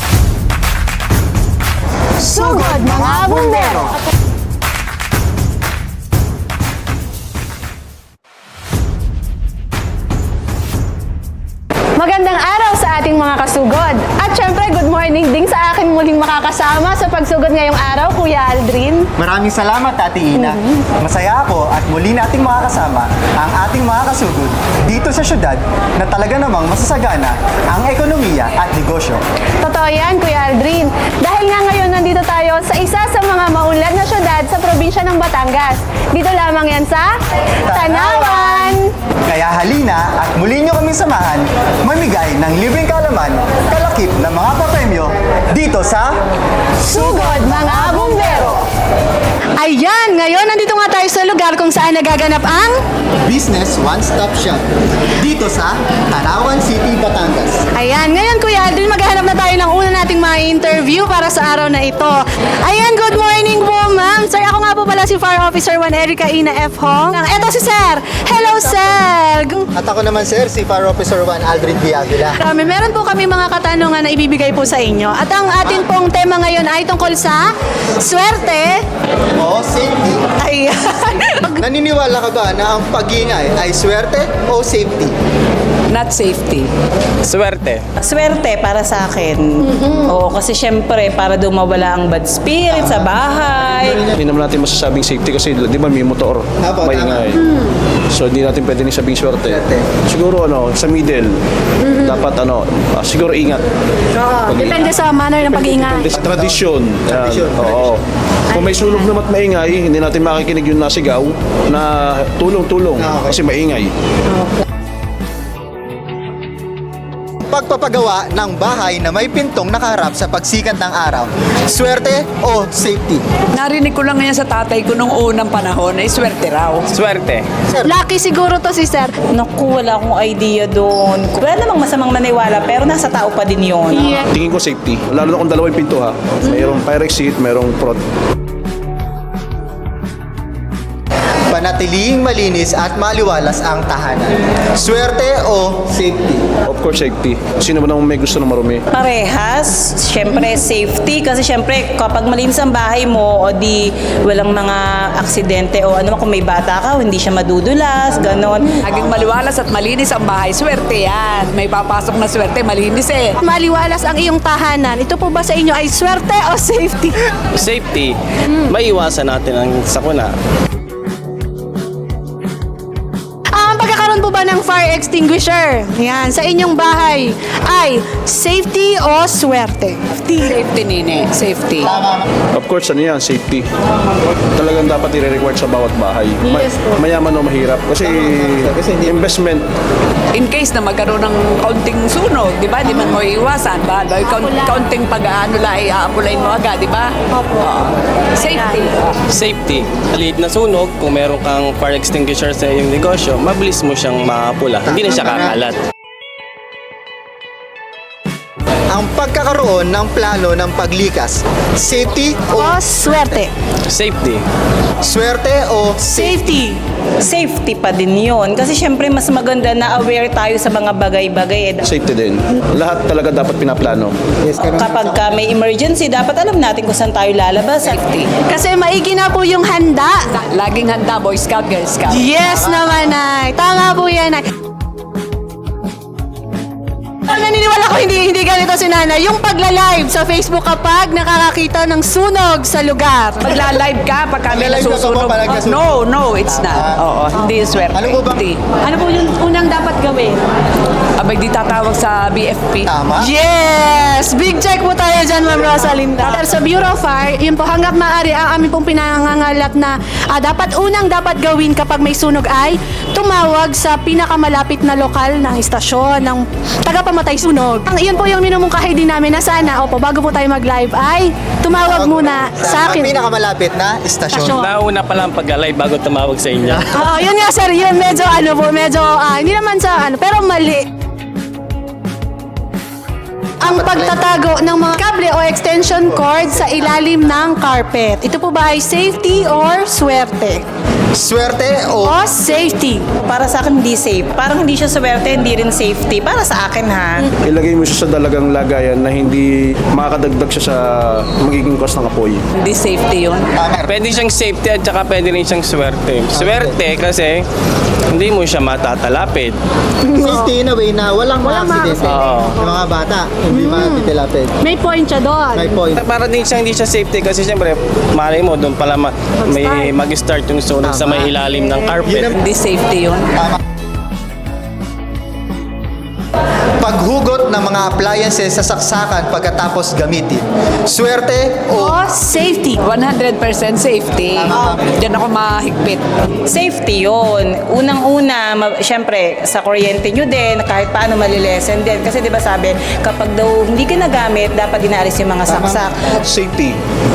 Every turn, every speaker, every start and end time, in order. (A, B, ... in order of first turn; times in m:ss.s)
0:02.2-0:03.9 A
0:02.2-0:03.9 B
0:12.0-0:19.1 B
0:19.2-0:29.2 A
0:20.4-0:20.7 B
0:29.6-0:37.1 B
0:37.6-0:46.2 A
0:37.7-0:38.9 B
0:46.8-0:48.6 B
0:46.8-0:48.5 A
0:49.6-0:52.8 B
0:53.2-0:54.6 A
0:55.1-0:57.6 A
0:57.7-1:09.7 B
1:09.7-1:12.4 A
1:12.4-1:18.8 B
1:19.4-1:20.2 A
1:20.4-1:21.6 B
1:21.6-1:25.1 A
1:25.9-1:26.7 C
1:27.2-1:27.8 D
1:28.0-1:34.1 E
1:32.7-1:33.2 A
1:33.8-1:34.1 A
1:34.1-1:37.4 F
1:36.6-1:37.3 A
1:38.1-1:43.6 F
1:39.5-1:39.9 A
1:44.2-1:46.0 B
1:44.5-1:53.9 F
1:46.2-1:46.6 A
1:47.1-1:47.9 A
1:53.0-1:53.4 A
1:57.5-2:03.2 A
2:03.5-2:06.9 C
2:06.9-2:07.5 D
2:07.7-2:08.0 A
2:07.8-2:09.1 B
2:09.3-2:14.2 E
2:13.9-2:14.3 B
2:14.1-2:18.0 F
2:21.5-2:26.4 A
2:26.6-2:28.8 F
2:28.9-2:38.8 E
2:38.8-2:43.4 C
2:38.9-2:39.3 A
2:43.4-2:47.2 B
2:47.6-2:50.3 D
2:53.5-3:00.0 B
3:00.1-3:02.0 C
3:01.9-3:02.2 A
3:02.5-3:03.7 F
3:04.5-3:09.7 F
3:08.2-3:09.1 A
3:10.3-3:19.2 C
3:14.2-3:14.8 B
3:19.3-3:25.8 D
3:24.8-3:25.6 A
3:28.9-3:32.8 A
3:32.5-3:33.5 B
3:33.9-3:34.4 D
3:35.0-3:36.4 A
3:36.0-3:36.8 B
3:37.2-3:41.8 E
3:41.8-3:44.1 F
3:44.4-3:45.3 A
3:44.6-3:48.0 E
3:47.8-3:48.3 C
3:48.4-3:50.2 B
3:50.3-3:52.3 C
3:52.1-3:54.4 B
3:52.4-3:53.0 A
3:57.3-4:03.5 B
4:03.4-4:08.6 C
4:04.5-4:06.0 A
4:06.6-4:07.0 A
4:07.9-4:08.4 A
4:08.8-4:10.4 B
4:11.2-4:12.9 C
4:12.8-4:13.3 A
4:13.2-4:33.1 B
4:16.2-4:16.5 C
4:31.8-4:34.6 A
4:34.3-4:34.7 B
4:34.4-4:36.9 D
4:36.9-4:40.8 B
4:43.6-4:50.6 B
4:43.6-4:44.3 A
4:51.1-4:52.2 A
4:52.0-4:53.0 B
4:53.2-4:57.3 E
4:57.4-5:02.4 F
5:02.5-5:03.5 C
5:03.6-5:03.9 A
5:03.9-5:07.4 D
5:06.3-5:06.8 A
5:08.1-5:09.6 D
5:10.0-5:10.5 B
5:10.1-5:14.5 A
5:11.4-5:12.2 B
5:12.0-5:12.6 D
5:13.5-5:15.8 B
5:15.5-5:16.0 A
5:16.0-5:22.3 D
5:19.5-5:19.9 B
5:20.8-5:21.3 A
5:22.3-5:23.3 C
5:26.8-5:32.0 A
5:31.8-5:32.8 B
5:32.8-5:36.0 C
5:34.4-5:34.9 A
5:36.4-5:46.1 E
5:45.5-5:46.0 A
5:46.2-5:46.8 F